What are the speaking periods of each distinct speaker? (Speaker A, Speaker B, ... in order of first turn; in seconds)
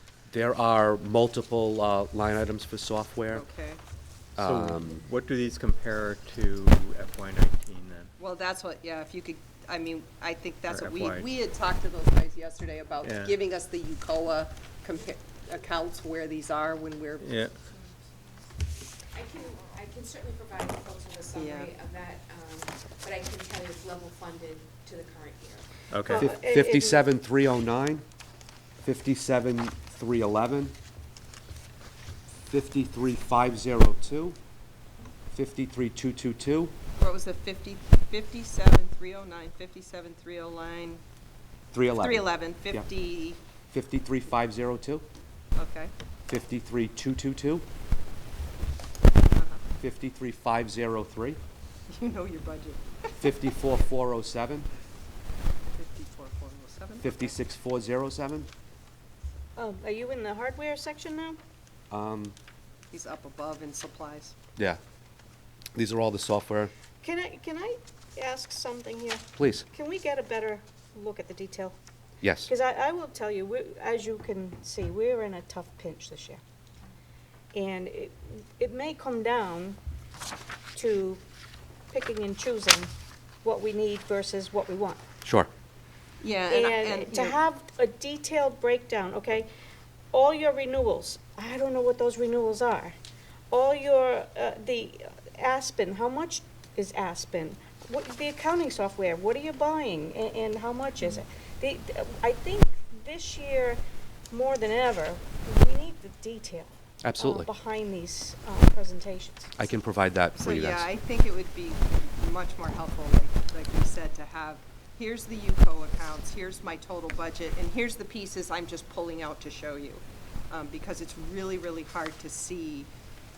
Speaker A: 0.3-3.4, 4.4-5.0, 26.1-28.0, 28.8-30.8, 32.5-34.4, 35.3-36.7, 41.7-42.9, 43.7-45.0, 46.3-47.7, 49.8-51.4, 53.2-54.7, 57.0-58.5, 61.9-62.4, 65.8-66.7, 69.4-69.7, 72.2-72.5, 85.2-85.5, 107.0-107.5, 109.6-110.9
Speaker B: 3.3-3.8, 8.2-17.3, 21.4-21.8, 37.0-41.0, 42.0-43.4, 45.6-45.9, 49.3-49.6, 51.9-53.1, 55.7-57.3, 62.9-64.3, 86.2-87.4, 110.4-122.9
Speaker C: 4.4-8.1, 10.7-11.3, 13.0-13.3, 17.2-17.5, 25.9-26.3
Speaker D: 19.1-25.6
Speaker E: 26.0-27.1, 59.6-61.4, 67.0-71.8, 72.5-76.4, 77.5-79.8, 80.7-81.2, 81.9-82.9, 83.4-85.0, 86.5-89.5, 90.1-93.0, 93.5-109.5